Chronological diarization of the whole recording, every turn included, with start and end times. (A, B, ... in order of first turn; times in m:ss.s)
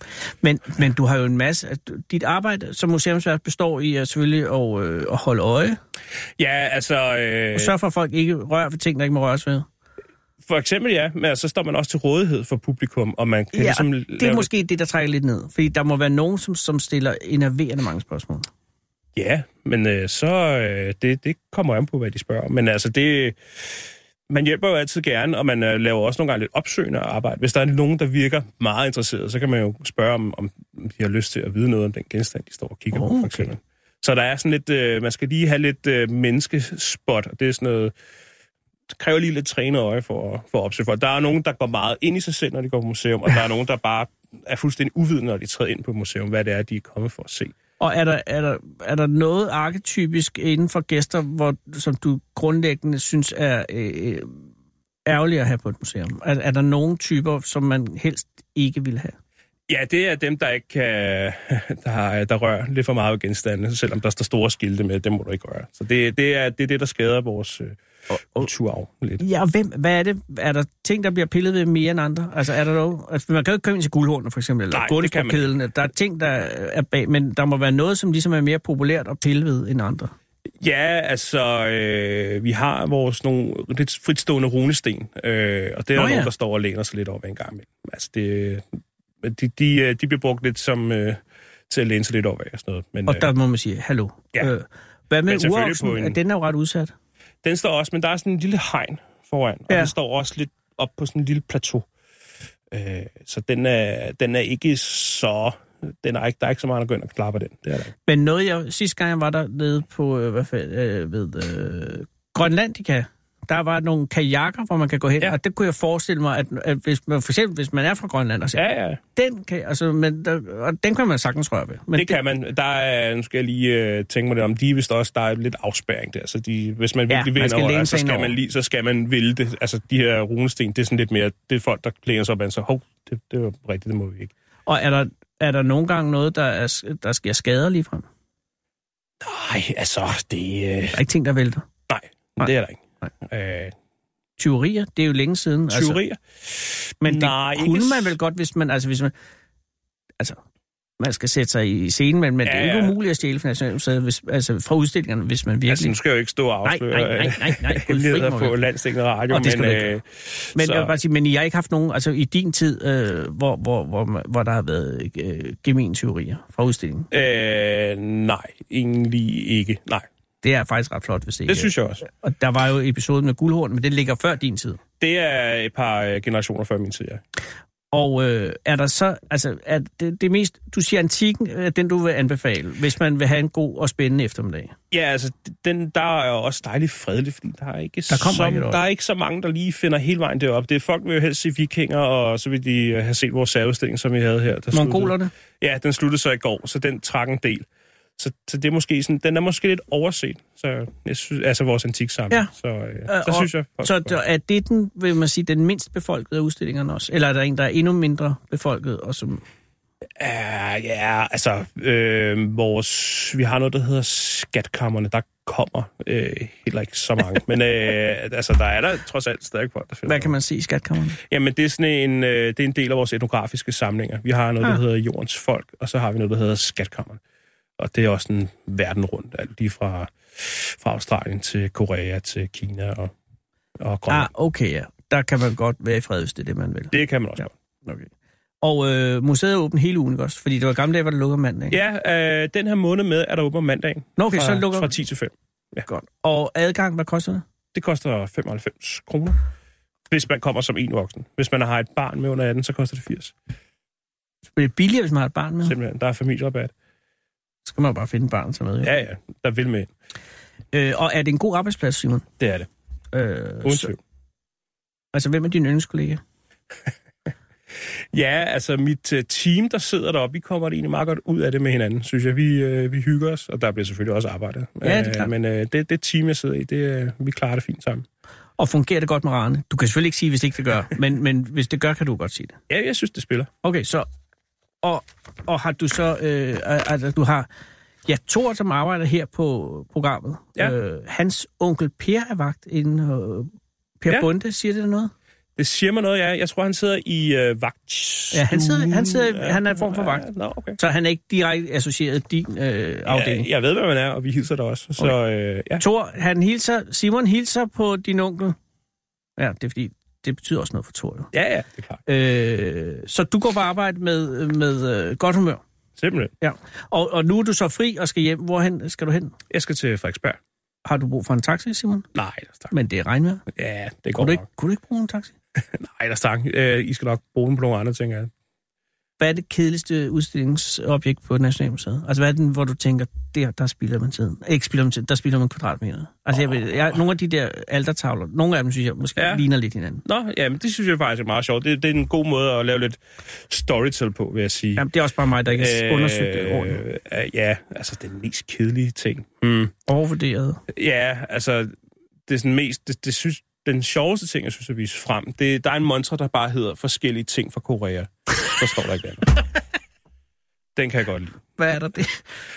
0:00.4-0:05.8 A
0:06.4-0:07.7 B
0:07.5-0:09.6 A
0:10.5-0:14.5 B
0:13.5-0:18.5 A
0:19.2-0:23.4 B
0:24.3-0:37.9 B
0:32.9-0:33.5 A
0:38.9-0:47.5 B
0:47.8-0:54.3 A
0:55.0-0:59.2 A
0:59.7-1:07.8 B
1:08.1-1:08.5 A
1:08.3-1:09.2 B
1:09.2-1:20.1 A
1:14.7-1:15.5 B
1:20.6-1:28.6 B
1:26.0-1:26.3 A
1:29.2-1:33.3 B
1:33.1-1:36.9 A
1:35.3-1:36.2 B
1:37.4-1:41.8 B
1:42.7-1:47.9 B
1:48.0-1:58.6 A
1:58.6-1:59.0 B
1:59.2-2:02.2 A
2:01.9-2:14.3 B
2:07.1-2:08.3 A
2:14.7-2:18.0 A
2:19.2-2:21.0 B
2:20.9-2:21.6 A
2:21.9-2:23.7 B
2:24.4-2:26.0 A
2:25.7-2:28.1 B
2:27.0-2:29.1 A
2:31.0-2:35.9 A
2:32.4-2:32.9 B
2:35.7-2:40.9 B
2:36.6-2:38.6 A
2:39.3-2:39.9 A
2:40.6-2:47.1 A
2:47.1-2:50.0 B
2:50.4-2:54.8 A
2:51.5-2:52.0 B
2:55.0-2:57.2 B
2:57.9-3:04.7 A
3:04.9-3:17.6 B
3:08.1-3:08.8 A
3:14.7-3:15.3 A
3:18.2-3:24.2 B
3:23.1-3:29.4 A
3:30.2-3:40.3 B
3:40.1-3:41.2 A
3:41.3-3:47.2 B
3:47.8-3:53.1 B
3:53.8-3:54.3 B
3:54.1-3:56.9 A
3:56.9-3:57.5 B
3:58.6-4:01.8 A
4:01.7-4:05.8 B
4:04.2-4:04.9 A
4:05.8-4:07.4 A
4:07.7-4:09.4 B
4:10.1-4:13.3 B
4:14.6-4:15.7 A
4:15.6-4:16.7 B
4:17.6-4:18.9 A
4:18.8-4:19.9 B
4:20.7-4:22.3 A
4:22.4-4:22.7 B
4:23.1-4:23.9 A
4:23.6-4:24.0 B
4:25.1-4:26.2 A
4:28.1-4:38.0 B
4:34.8-4:35.3 A
4:38.6-4:42.6 A
4:42.7-4:43.5 B
4:43.6-4:44.1 A
4:44.8-4:47.5 A
4:48.0-4:55.1 A
4:55.6-5:00.8 B
4:58.3-5:00.3 A
5:00.8-5:03.5 A
5:03.1-5:05.8 B
5:05.8-5:08.6 A
5:09.4-5:11.3 A
5:11.3-5:12.0 B
5:12.1-5:15.6 A
5:16.0-5:16.3 B
5:16.4-5:19.3 A
5:19.5-5:20.4 B
5:20.8-5:22.1 A
5:22.1-5:22.7 B
5:22.7-5:23.4 A
5:23.5-5:24.4 B
5:24.2-5:25.3 A
5:25.7-5:28.3 B
5:29.2-5:40.0 A
5:39.2-5:39.4 B
5:40.0-5:44.9 B
5:44.8-5:46.8 A
5:45.5-5:49.7 B
5:49.9-5:50.6 A
5:50.7-5:51.7 B
5:52.3-5:59.4 B
6:00.8-6:01.6 B
6:01.6-6:02.2 A